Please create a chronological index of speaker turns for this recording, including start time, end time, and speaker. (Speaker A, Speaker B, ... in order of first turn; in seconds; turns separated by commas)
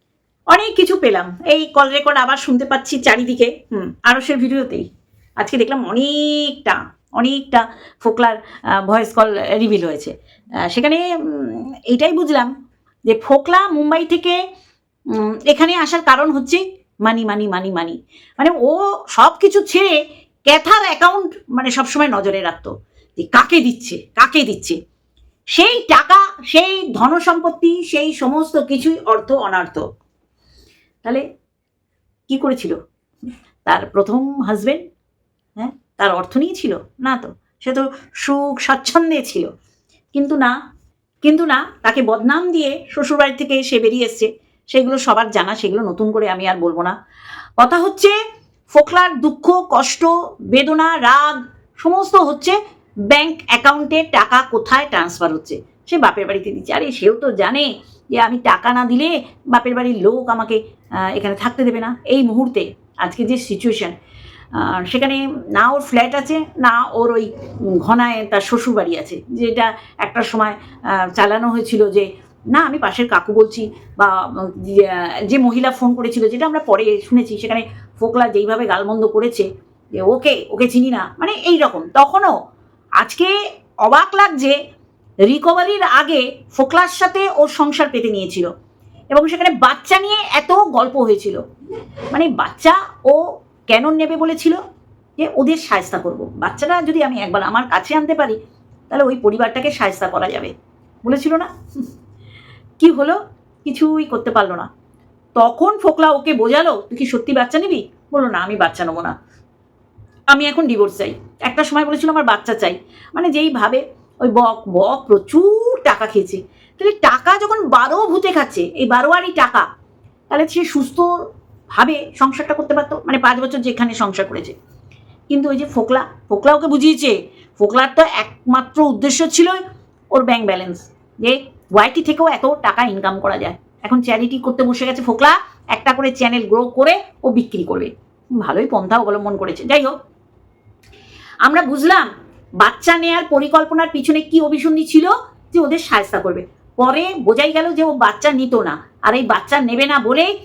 Speaker A: 0.5-4.9, Speaker A: 5.4-10.1, Speaker A: 10.6-12.5, Speaker A: 13.1-14.4, Speaker A: 15.1-20.0, Speaker A: 20.5-24.8, Speaker A: 25.5-29.9, Speaker A: 32.3-32.8, Speaker A: 33.6-34.8, Speaker A: 35.6-39.5, Speaker A: 40.1-40.5, Speaker A: 41.2-46.9, Speaker A: 47.6-48.1, Speaker A: 48.7-52.6, Speaker A: 53.1-63.9, Speaker A: 64.5-79.5, Speaker A: 80.0-82.3, Speaker A: 83.0-83.3, Speaker A: 83.8-84.6, Speaker A: 85.3-88.5, Speaker A: 89.1-91.4, Speaker A: 92.1-94.6, Speaker A: 95.2-98.4, Speaker A: 98.9-100.5, Speaker A: 101.0-101.5, Speaker A: 102.8-104.7, Speaker A: 105.4-109.1, Speaker A: 110.3-119.6, Speaker A: 120.3-121.1, Speaker A: 121.7-124.5, Speaker A: 125.3-129.6, Speaker A: 130.1-139.9, Speaker A: 141.4-142.1, Speaker A: 142.6-150.3